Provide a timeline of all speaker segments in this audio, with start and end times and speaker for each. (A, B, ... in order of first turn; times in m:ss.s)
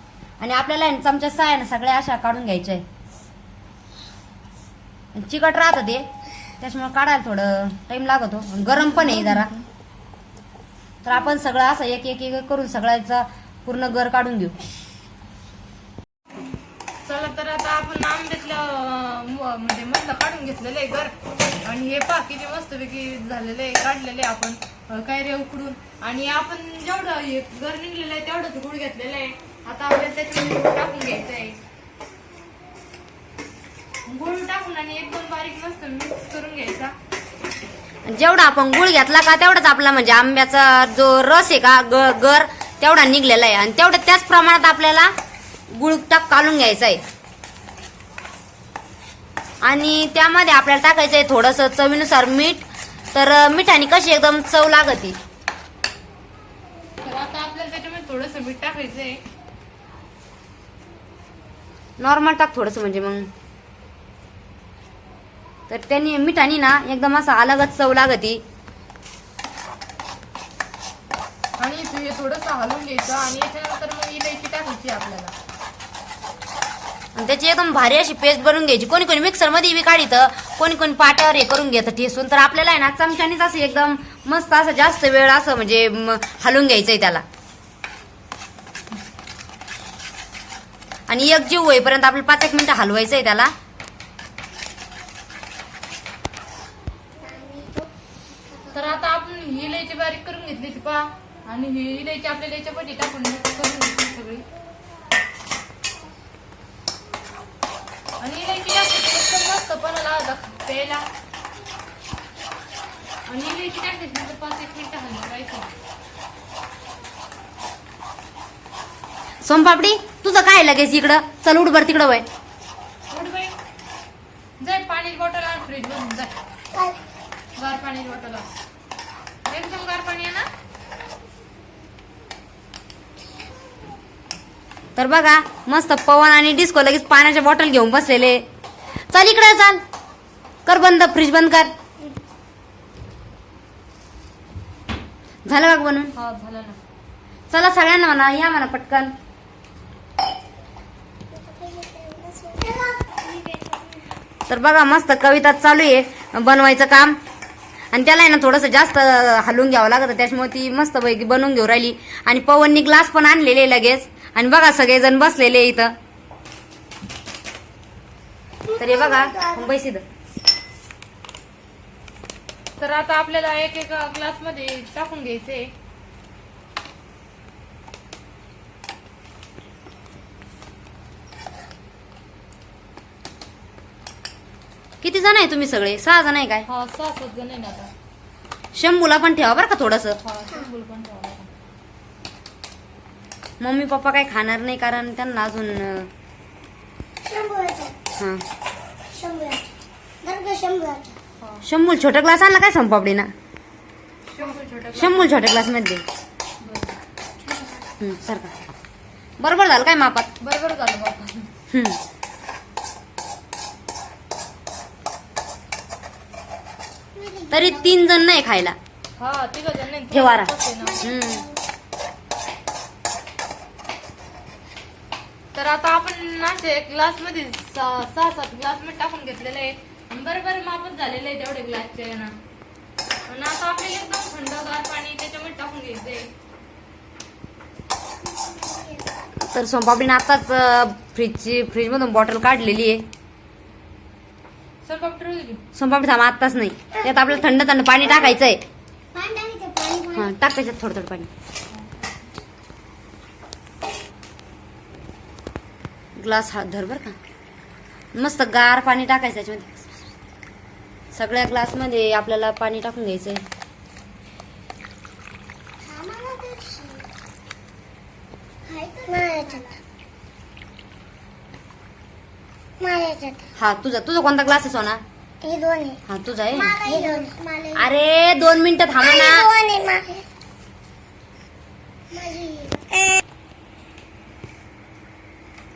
0:00.4-0:02.8 A
0:05.1-0:06.1 A
0:06.6-0:09.5 A
0:08.8-0:09.6 B
0:11.0-0:14.6 A
0:17.0-0:21.1 B
0:21.6-0:31.6 B
0:34.1-0:37.0 B
0:38.1-0:45.1 A
0:45.7-0:47.0 A
0:49.6-0:55.2 A
0:57.0-0:59.2 B
1:02.0-1:03.3 A
1:05.7-1:08.4 A
1:11.6-1:15.3 B
1:17.2-1:27.2 A
1:31.1-1:33.5 A
1:37.2-1:37.9 C
1:38.5-1:38.8 C
1:38.7-1:44.4 B
1:48.2-1:51.0 B
1:53.3-1:55.7 B
1:59.4-2:02.3 A
2:03.1-2:03.5 B
2:04.6-2:06.3 B
2:07.6-2:08.5 B
2:09.5-2:10.5 B
2:15.0-2:18.4 A
2:19.1-2:19.8 A
2:20.7-2:21.7 A
2:25.5-2:26.1 A
2:26.1-2:26.8 B
2:27.5-2:29.1 A
2:31.3-2:34.0 C
2:34.5-2:37.2 A
2:37.9-2:45.9 A
2:48.7-2:49.6 C
2:48.8-2:50.0 A
2:52.8-2:55.7 B
3:05.0-3:06.7 A
3:06.7-3:07.9 B
3:08.7-3:10.2 A
3:10.2-3:11.5 B
3:13.6-3:16.1 A
3:17.2-3:18.0 C
3:18.2-3:18.4 A
3:19.1-3:19.6 C
3:20.2-3:21.1 C
3:21.4-3:21.7 B
3:21.6-3:23.3 A
3:24.3-3:25.4 B
3:24.9-3:26.0 A
3:26.6-3:27.0 B
3:27.4-3:27.9 C
3:28.0-3:28.5 A
3:29.4-3:30.3 A
3:30.4-3:31.5 B
3:31.7-3:32.0 A
3:37.2-3:38.0 C
3:37.5-3:38.8 A
3:39.2-3:41.1 B
3:40.1-3:41.4 A
3:40.8-3:41.6 C
3:45.6-3:52.4 B
3:53.3-3:56.3 B
3:58.3-3:59.1 C
3:59.4-4:03.0 A
4:04.8-4:05.6 B
4:05.8-4:08.6 A
4:09.1-4:10.3 C
4:10.1-4:11.3 A
4:16.2-4:17.2 A
4:18.2-4:19.9 A
4:21.1-4:23.4 A
4:25.8-4:27.1 C
4:28.7-4:29.8 C
4:32.8-4:33.5 C
4:33.6-4:35.0 A
4:35.4-4:36.0 C
4:36.1-4:37.0 A
4:36.5-4:37.9 C
4:37.8-4:39.5 A
4:39.0-4:40.3 C
4:42.1-4:43.2 C